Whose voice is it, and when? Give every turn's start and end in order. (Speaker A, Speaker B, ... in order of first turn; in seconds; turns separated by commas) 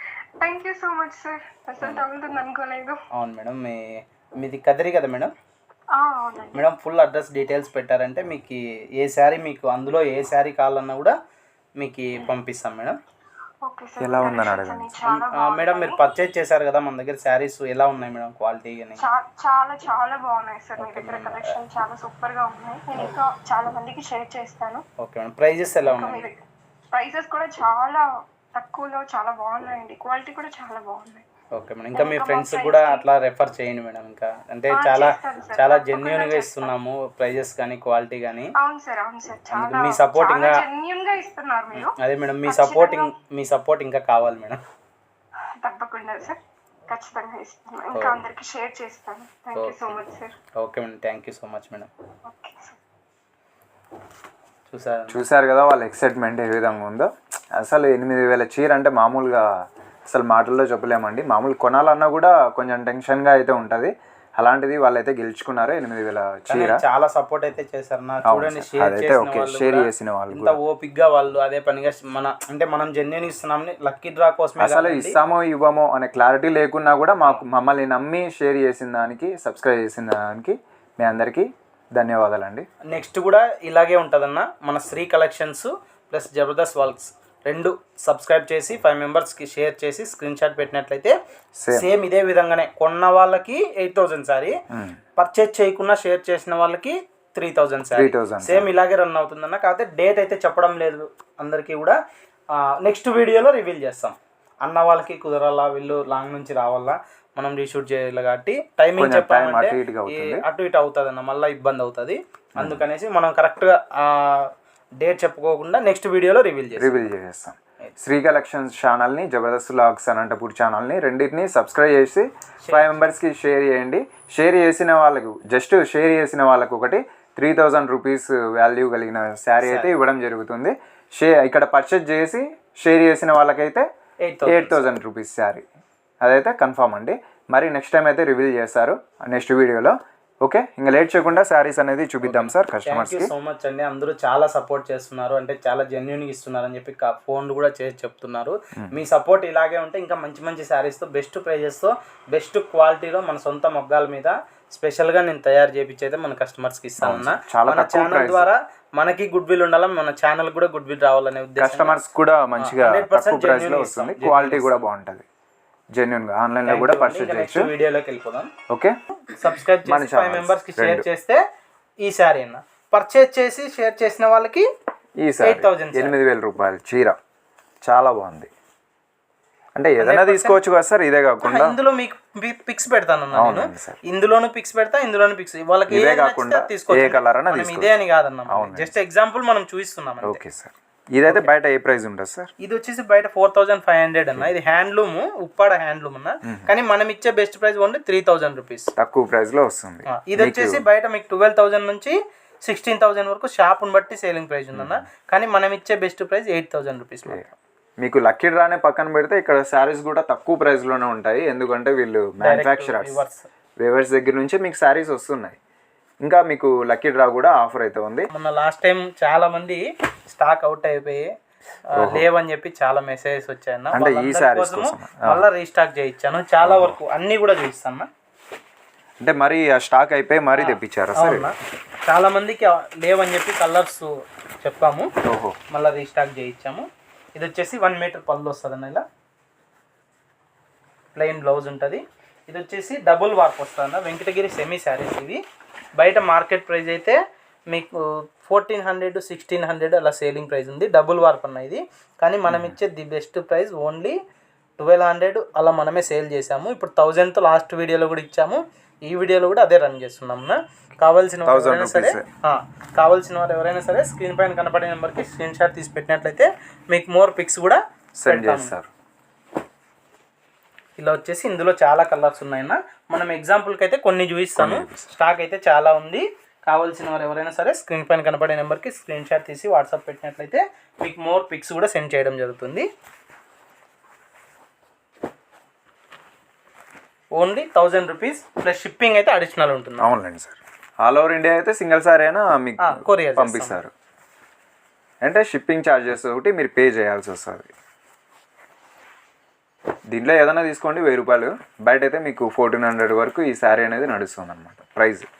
Speaker A: 0.4-3.0, Speaker B: 3.1-5.3, Speaker A: 5.9-6.6, Speaker B: 6.5-11.2, Speaker B: 11.8-13.0, Speaker A: 13.7-16.1, Speaker C: 14.0-14.9, Speaker B: 15.1-19.0, Speaker A: 19.0-24.8, Speaker B: 20.8-21.6, Speaker B: 25.0-26.3, Speaker A: 25.9-26.4, Speaker A: 26.9-31.2, Speaker B: 31.5-38.5, Speaker A: 31.9-33.0, Speaker A: 34.7-36.7, Speaker A: 38.5-42.0, Speaker B: 39.5-40.6, Speaker B: 41.7-44.6, Speaker A: 42.5-43.1, Speaker A: 45.6-50.4, Speaker B: 47.9-48.2, Speaker B: 50.6-51.9, Speaker A: 52.2-52.8, Speaker B: 54.7-55.2, Speaker C: 55.1-59.5, Speaker C: 60.1-66.8, Speaker B: 66.5-75.2, Speaker C: 68.2-70.6, Speaker C: 74.6-82.7, Speaker B: 82.9-91.2, Speaker C: 91.6-91.9, Speaker B: 91.7-94.6, Speaker C: 94.7-95.0, Speaker B: 95.2-102.0, Speaker C: 97.9-98.7, Speaker B: 102.5-117.1, Speaker C: 109.0-110.5, Speaker C: 112.6-112.8, Speaker C: 116.8-133.9, Speaker B: 122.6-123.0, Speaker B: 129.6-129.9, Speaker B: 134.2-134.8, Speaker C: 134.5-135.6, Speaker C: 136.2-143.3, Speaker B: 142.2-162.0, Speaker C: 157.0-158.5, Speaker C: 161.6-165.2, Speaker B: 162.6-164.8, Speaker C: 165.9-167.7, Speaker B: 166.7-168.5, Speaker C: 168.7-168.9, Speaker B: 169.3-171.4, Speaker C: 169.8-171.1, Speaker B: 172.0-174.7, Speaker C: 175.2-177.2, Speaker B: 175.4-176.2, Speaker C: 177.8-178.5, Speaker C: 179.8-181.8, Speaker B: 180.0-180.6, Speaker B: 181.4-190.4, Speaker C: 183.3-184.0, Speaker C: 185.9-187.9, Speaker C: 188.5-188.9, Speaker C: 190.2-192.5, Speaker B: 191.3-191.5, Speaker B: 192.6-198.9, Speaker C: 196.4-196.7, Speaker C: 199.0-200.8, Speaker B: 200.1-207.4, Speaker C: 204.7-205.0, Speaker C: 208.0-213.2, Speaker B: 212.4-213.5, Speaker C: 213.8-215.6, Speaker C: 216.2-218.3, Speaker B: 218.3-221.3, Speaker B: 221.9-228.1, Speaker C: 222.0-222.3, Speaker C: 223.9-225.4, Speaker C: 226.6-227.0, Speaker C: 229.2-231.5, Speaker B: 230.5-231.5, Speaker B: 232.1-235.1, Speaker C: 235.2-235.6, Speaker B: 235.7-239.0, Speaker B: 241.2-245.4, Speaker B: 246.0-247.2, Speaker B: 247.7-254.2, Speaker C: 252.5-252.8, Speaker B: 254.8-268.7, Speaker C: 261.5-262.3, Speaker C: 268.2-268.9, Speaker B: 271.0-282.9, Speaker C: 274.6-275.1, Speaker B: 287.4-290.1, Speaker C: 290.0-293.9, Speaker B: 292.8-293.8, Speaker C: 295.2-297.7, Speaker C: 300.1-305.3